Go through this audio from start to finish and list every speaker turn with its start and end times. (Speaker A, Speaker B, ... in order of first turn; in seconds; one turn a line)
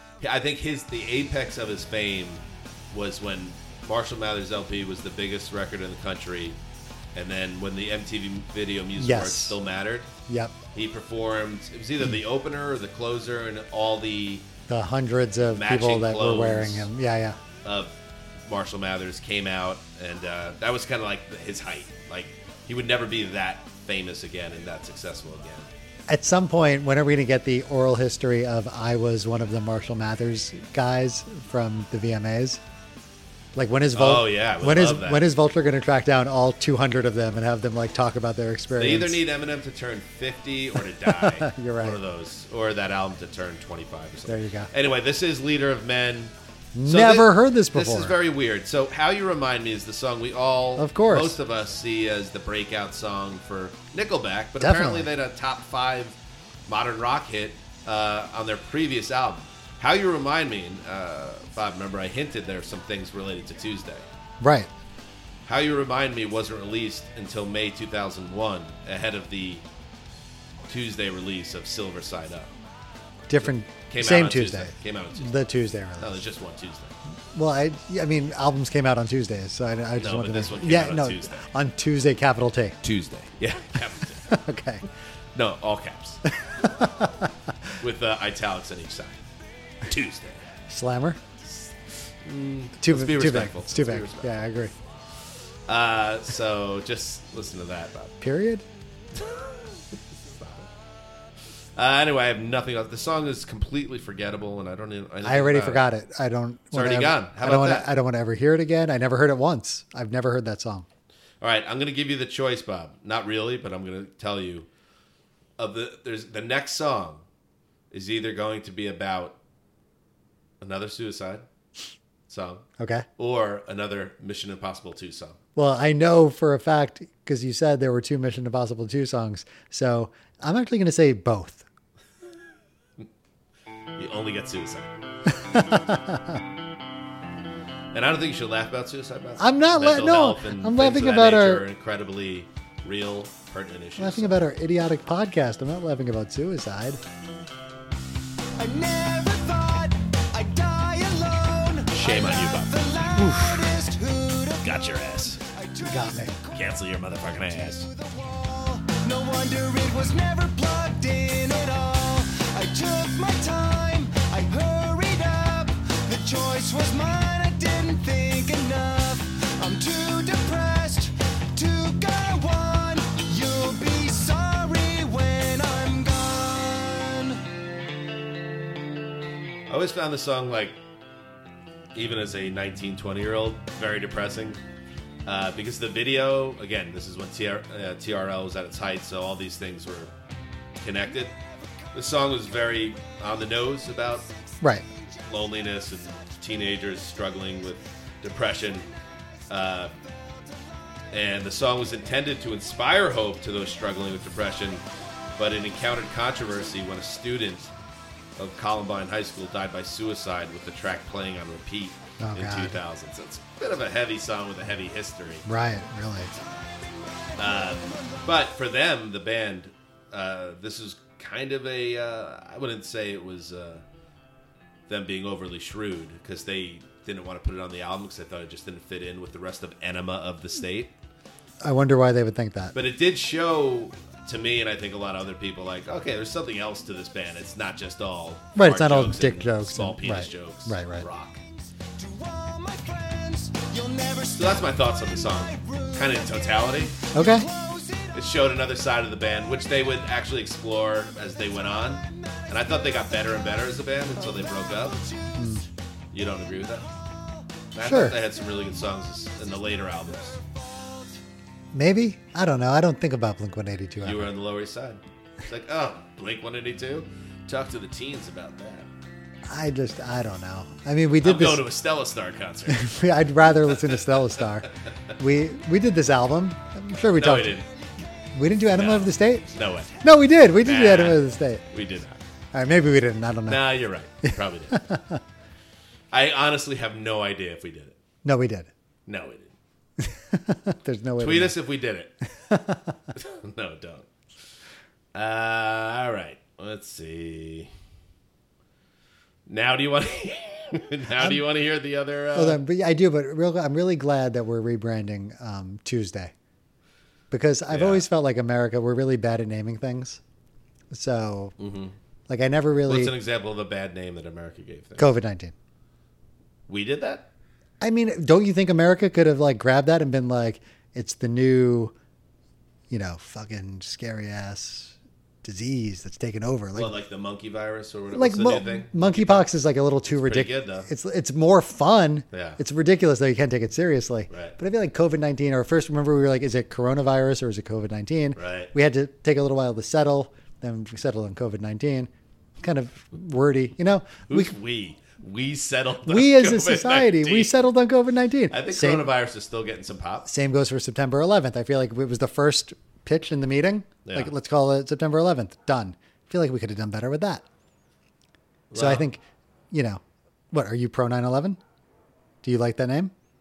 Speaker A: 0.2-6.6
Speaker A: 7.1-10.1
Speaker B: 9.0-9.6
Speaker B: 10.3-10.5
Speaker A: 10.7-14.4
Speaker B: 14.7-17.4
Speaker A: 15.5-16.9
Speaker A: 17.6-17.9
Speaker A: 18.4-25.7
Speaker B: 26.1-32.6
Speaker B: 33.5-39.2
Speaker A: 33.9-35.3
Speaker A: 38.8-46.3
Speaker B: 41.0-42.0
Speaker B: 44.3-44.7
Speaker B: 46.7-48.1
Speaker A: 46.8-56.1
Speaker B: 50.8-51.4
Speaker B: 54.6-55.1
Speaker A: 56.7-64.0
Speaker B: 64.4-64.7
Speaker A: 65.5-69.6
Speaker A: 70.7-72.5
Speaker B: 73.3-76.2
Speaker A: 73.9-76.9
Speaker B: 77.3-82.8
Speaker A: 80.0-81.5
Speaker A: 82.8-84.4
Speaker B: 84.3-84.8
Speaker A: 85.3-86.2
Speaker B: 86.4-87.3
Speaker A: 87.8-89.2
Speaker A: 89.8-90.5
Speaker B: 90.7-91.2
Speaker A: 91.4-94.4
Speaker B: 92.8-94.7
Speaker A: 95.7-98.1
Speaker B: 98.2-98.6
Speaker A: 99.1-100.7
Speaker A: 101.8-105.8
Speaker B: 105.2-110.9
Speaker A: 106.7-107.9
Speaker A: 111.4-114.7
Speaker A: 115.6-117.2
Speaker A: 117.9-119.3
Speaker A: 120.6-121.4
Speaker A: 122.3-122.6
Speaker B: 122.8-123.0
Speaker A: 123.2-125.4
Speaker B: 125.5-131.6
Speaker A: 133.9-134.9
Speaker B: 135.3-136.4
Speaker A: 137.9-144.4
Speaker B: 139.4-141.6
Speaker B: 144.0-147.0
Speaker C: 148.6-154.8
Speaker A: 151.9-152.9
Speaker B: 153.1-153.7
Speaker A: 154.6-155.4
Speaker C: 155.4-156.5
Speaker B: 155.8-156.3
Speaker A: 156.5-157.9
Speaker C: 157.4-177.3
Speaker A: 179.7-180.8
Speaker A: 181.9-184.6
Speaker A: 185.2-190.1
Speaker A: 190.8-191.3
Speaker A: 191.9-194.3
Speaker A: 195.3-198.9
Speaker A: 199.5-199.9
Speaker A: 201.1-204.8
Speaker A: 205.4-207.7
Speaker A: 208.4-215.4
Speaker B: 212.2-212.8
Speaker B: 215.4-216.3
Speaker A: 217.4-223.8
Speaker A: 224.9-230.9
Speaker B: 231.6-232.7
Speaker A: 232.7-241.4
Speaker B: 238.5-241.1
Speaker C: 242.0-248.1
Speaker A: 244.3-246.9
Speaker B: 247.1-247.5
Speaker A: 248.1-255.0
Speaker C: 254.5-255.3
Speaker B: 255.3-255.6
Speaker A: 256.1-256.9
Speaker A: 257.7-260.4
Speaker B: 257.8-258.2
Speaker B: 261.7-264.3
Speaker A: 264.0-268.9
Speaker B: 269.4-271.6
Speaker A: 271.2-272.9
Speaker B: 272.7-277.6
Speaker A: 277.1-277.7
Speaker B: 278.3-279.5
Speaker A: 278.7-280.0
Speaker B: 280.0-281.6
Speaker A: 280.6-282.2
Speaker B: 282.5-285.2
Speaker A: 283.5-284.9
Speaker A: 286.1-288.0
Speaker B: 288.2-288.7
Speaker A: 289.1-289.5
Speaker B: 290.0-291.6
Speaker A: 291.2-292.1
Speaker B: 292.5-292.9
Speaker A: 293.1-294.1
Speaker A: 295.1-297.7
Speaker A: 299.5-302.6
Speaker B: 302.3-306.3
Speaker B: 307.3-310.2
Speaker A: 307.7-308.0
Speaker B: 310.9-311.5
Speaker A: 311.6-311.9
Speaker B: 312.3-313.1
Speaker A: 312.9-315.1
Speaker B: 315.0-315.5
Speaker A: 316.7-317.3
Speaker B: 317.8-321.9
Speaker B: 322.9-326.9
Speaker A: 326.7-329.5
Speaker B: 328.1-342.1
Speaker A: 330.1-330.9
Speaker A: 332.3-332.6
Speaker A: 334.3-334.6
Speaker A: 338.4-338.7
Speaker B: 342.6-344.5
Speaker A: 344.3-347.6
Speaker B: 346.1-349.1
Speaker A: 348.5-350.3
Speaker B: 350.2-357.4
Speaker A: 354.0-354.3
Speaker A: 358.7-359.1
Speaker B: 358.7-360.0
Speaker B: 360.5-361.6
Speaker B: 362.4-363.1